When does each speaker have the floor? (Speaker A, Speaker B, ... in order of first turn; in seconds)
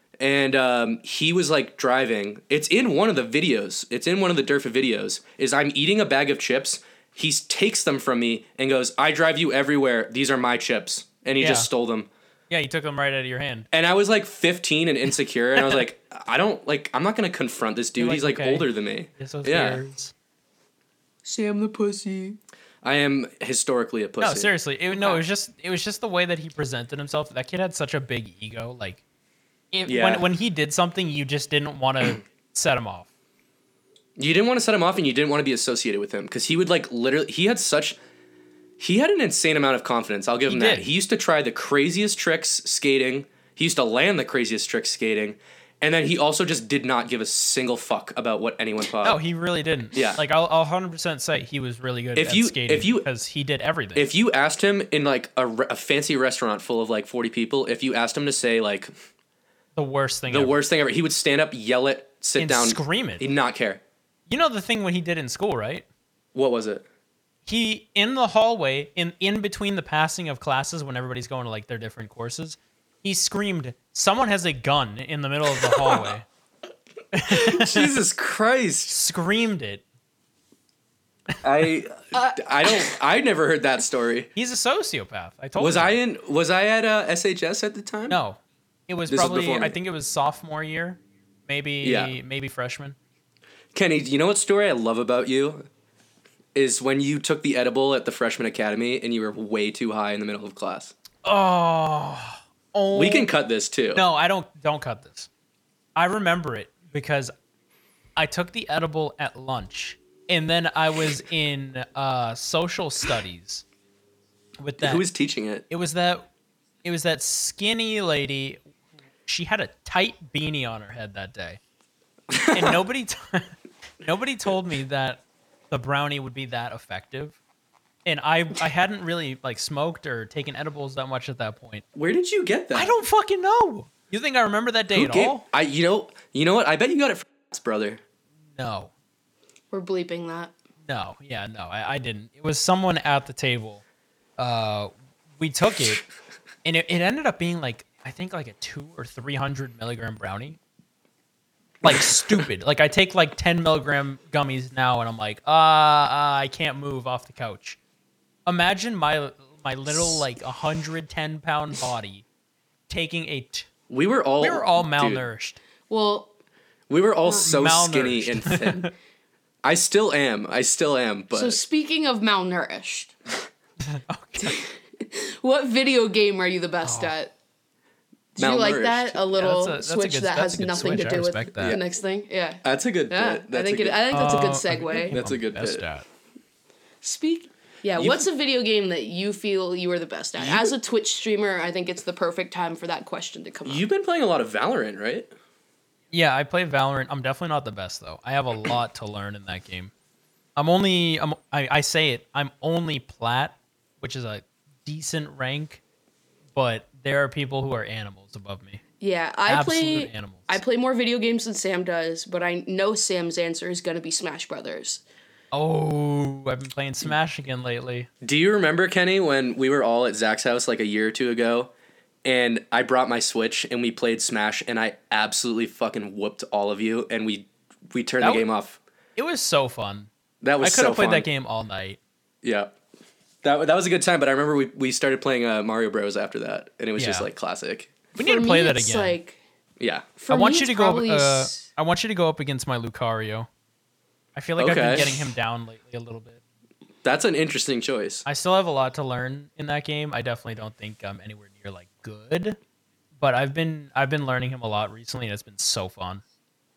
Speaker A: 0.2-12.1, 13.7-19.8, 22.8-24.5, 29.9-30.3, 34.2-38.0, 38.8-49.2, 49.9-50.2, 52.2-53.1, 54.0-58.9, 60.3-63.8, 66.3-66.8, 75.7-76.1, 77.3-78.9, 81.4-84.3, 85.6-88.2, 89.1-89.8, 91.8-92.1, 93.7-95.7, 96.5-100.9, 102.9-104.0, 114.8-115.7, 122.3-122.8, 131.9-132.9, 134.9-138.0, 163.9-165.2, 166.9-168.9, 169.6-171.6, 178.4-179.2, 182.6-184.0, 185.1-185.8, 188.0-188.3, 190.4-190.7, 193.7-195.3, 218.2-221.7, 222.2-228.8, 230.4-231.3, 232.4-232.8, 233.4-238.0, 239.8-240.1, 244.6-245.2, 247.0-248.2
Speaker B: 11.4-11.7, 12.5-13.7, 18.0-20.1, 24.2-29.0, 29.7-33.1, 40.5-40.9, 49.0-54.1, 59.8-60.6, 62.4-63.3, 64.3-65.9, 67.5-76.3, 77.1-78.0, 78.9-79.8, 84.4-86.0, 88.1-93.0, 101.2-103.3, 103.9-105.3, 106.0-107.3, 108.2-113.6, 114.6-115.1, 115.7-116.3, 116.8-118.6, 119.3-121.6, 122.5-127.4, 128.1-131.8, 132.7-135.4, 138.6-138.9, 140.8-143.8, 144.4-146.0, 146.6-150.6, 151.8-157.8, 158.5-162.2, 162.9-163.7, 164.4-165.6, 167.3-168.9, 173.9-174.6, 176.8-177.1, 179.3-181.8, 184.1-186.1, 196.1-199.9, 200.6-205.8, 206.6-208.8, 209.5-210.6, 215.5-218.1, 228.2-228.5, 229.2-230.1, 230.6-232.0, 237.0-237.3, 238.2-239.2, 240.3-243.5, 244.4-246.4, 248.3-252.6, 253.2-256.2
Speaker C: 21.2-22.4, 24.9-25.2, 82.1-83.0, 139.7-140.5, 165.9-166.3, 171.3-173.2, 174.4-177.3, 178.4-185.2, 187.0-193.8, 209.0-215.0, 238.2-239.4, 240.2-241.7